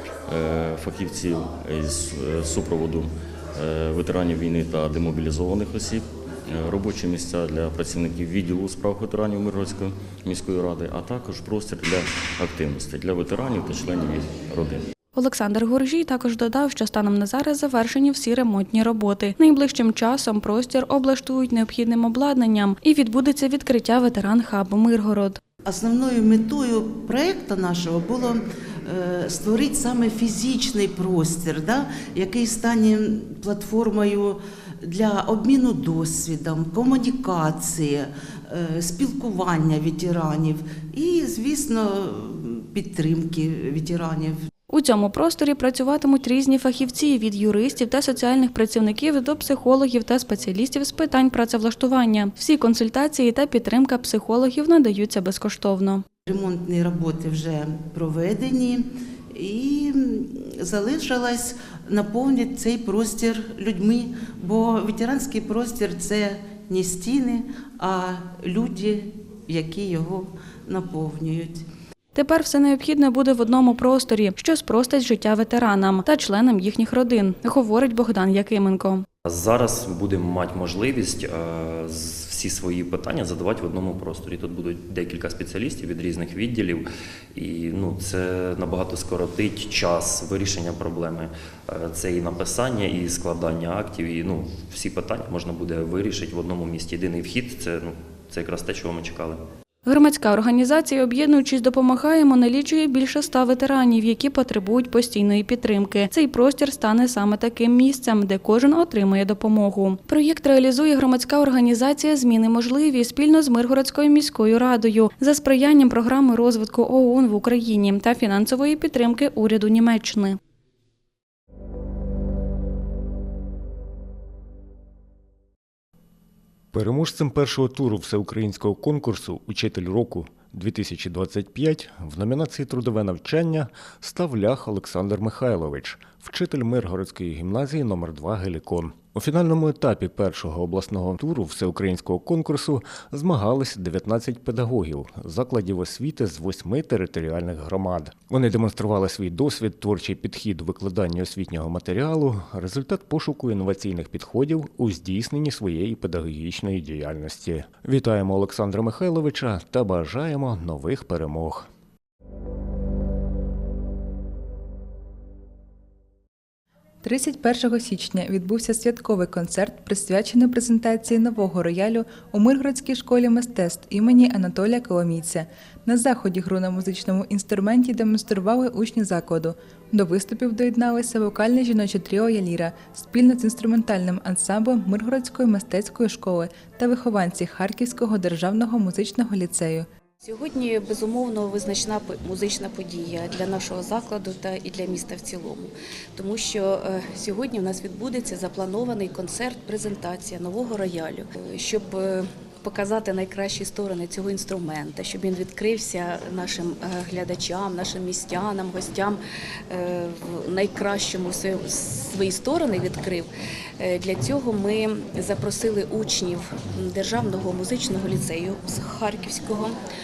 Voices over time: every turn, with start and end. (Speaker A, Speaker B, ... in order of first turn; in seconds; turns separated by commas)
Speaker A: 0.3-14.8, Speaker B: 15.1-25.4, Speaker C: 25.6-44.4, Speaker B: 44.7-56.0, Speaker C: 56.3-71.7, Speaker B: 72.2-79.1, Speaker D: 79.2-99.4, Speaker B: 99.8-120.4, Speaker E: 126.7-161.7, Speaker F: 167.0-189.9, Speaker G: 190.2-209.2, Speaker G: 209.7-213.3, Speaker G: 213.8-219.7